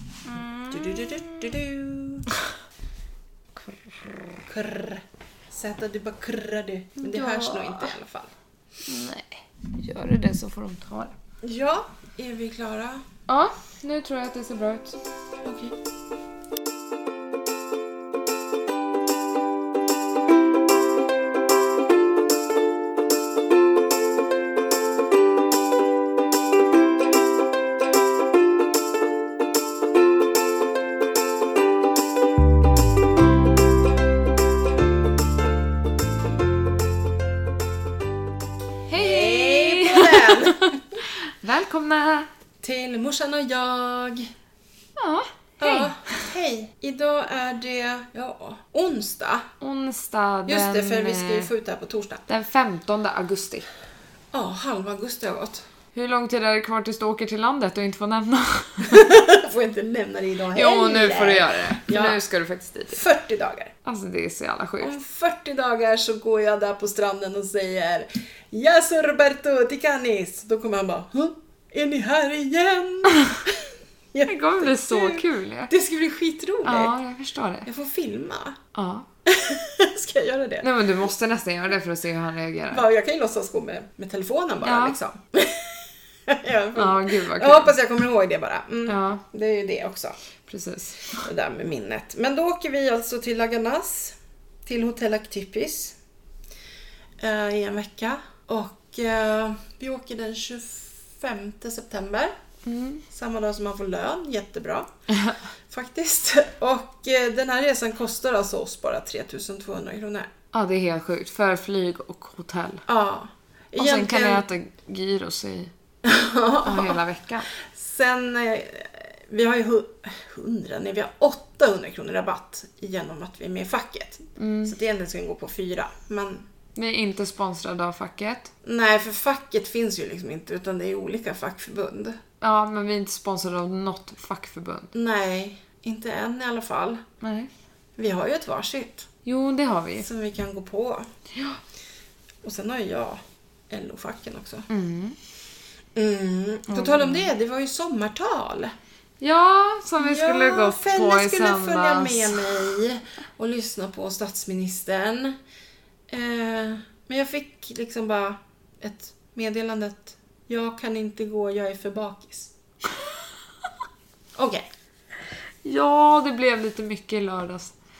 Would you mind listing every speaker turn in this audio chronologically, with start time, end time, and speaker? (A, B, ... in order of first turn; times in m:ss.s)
0:00.2-0:01.5 A
0:00.7-0:02.3 B
0:03.6-0:04.4 A
0:04.4-0:08.3 B
0:07.0-0:07.9 A
0:08.8-0:11.1 A
0:11.4-0:13.0 B
0:13.3-0:15.0 A
0:15.4-0:15.7 B
0:38.9-0:42.3 A
0:38.9-0:41.0 B
0:42.6-0:44.3 B
0:45.0-0:45.9 A
0:45.6-0:49.5 B
0:49.6-0:51.5 A
0:50.4-0:52.2 B
0:52.3-0:53.6 A
0:54.3-0:55.6 B
0:55.9-0:59.0 A
0:58.8-1:02.2 B
1:00.5-1:03.0 A
1:02.9-1:03.7 B
1:03.8-1:04.9 A
1:04.8-1:16.9 B
1:14.2-1:15.7 A
1:16.6-1:17.7 A
1:17.6-1:18.6 B
1:18.7-1:19.1 A
1:19.2-1:20.7 B
1:20.6-1:22.8 A
1:22.7-1:30.2 B
1:24.6-1:25.0 A
1:26.7-1:27.7 A
1:28.9-1:29.2 A
1:30.4-1:31.2 A
1:31.2-1:36.0 B
1:37.2-1:42.3 B
1:42.6-1:43.0 A
1:43.1-1:44.9 B
1:45.7-1:50.3 B
1:50.5-1:52.8 A
1:52.8-1:54.4 B
1:53.8-1:55.7 A
1:56.0-1:57.0 B
1:56.6-1:57.5 A
1:57.6-2:06.4 B
2:04.4-2:04.7 A
2:06.7-2:08.5 A
2:08.6-2:12.2 B
2:12.4-2:14.9 A
2:14.9-2:17.0 B
2:17.2-2:17.5 A
2:18.0-2:19.1 B
2:19.2-2:20.1 A
2:20.0-2:21.1 B
2:21.3-2:21.6 A
2:22.4-2:24.7 B
2:24.7-2:25.2 A
2:26.0-2:28.7 B
2:26.7-2:27.3 A
2:29.2-2:32.6 A
2:30.0-2:35.4 B
2:36.1-2:42.5 B
2:44.4-2:44.6 B
2:45.6-2:47.7 A